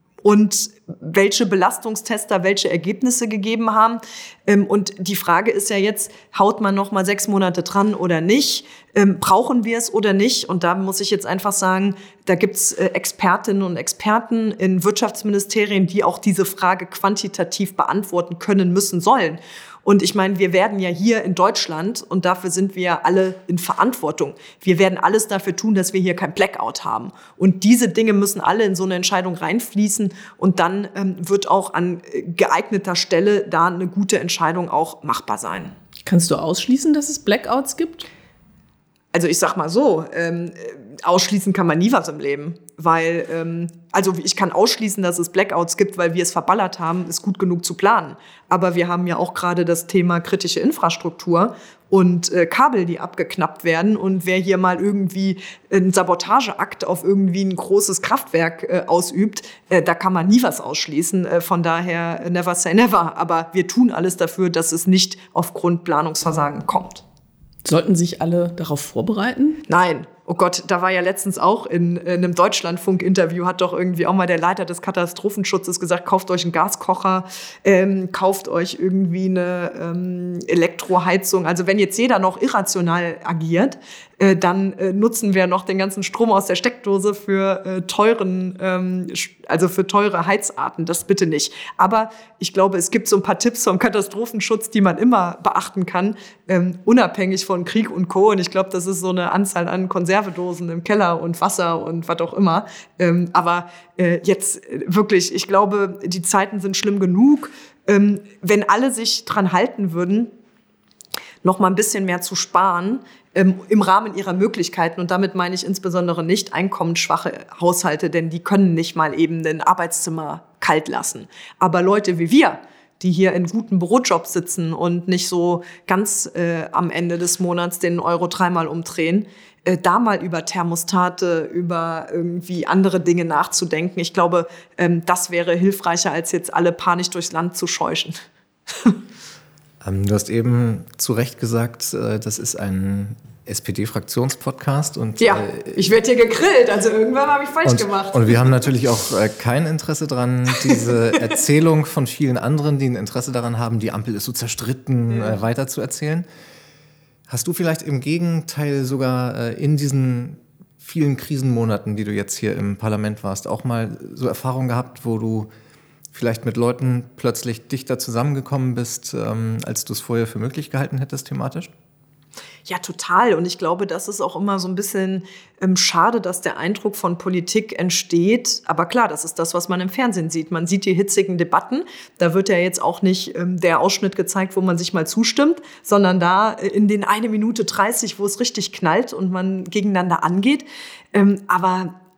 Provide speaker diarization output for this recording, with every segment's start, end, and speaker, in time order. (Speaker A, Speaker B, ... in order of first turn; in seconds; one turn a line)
Speaker A: 0.2-35.8
Speaker B: 36.0-38.1
Speaker A: 39.1-67.0
Speaker B: 67.7-69.6
Speaker A: 69.7-110.3
Speaker A: 111.4-139.0
Speaker C: 139.8-145.8
Speaker A: 145.2-148.6
Speaker C: 147.7-156.2
Speaker A: 155.1-155.4
Speaker C: 157.3-165.5
Speaker C: 166.1-171.7
Speaker A: 172.7-191.9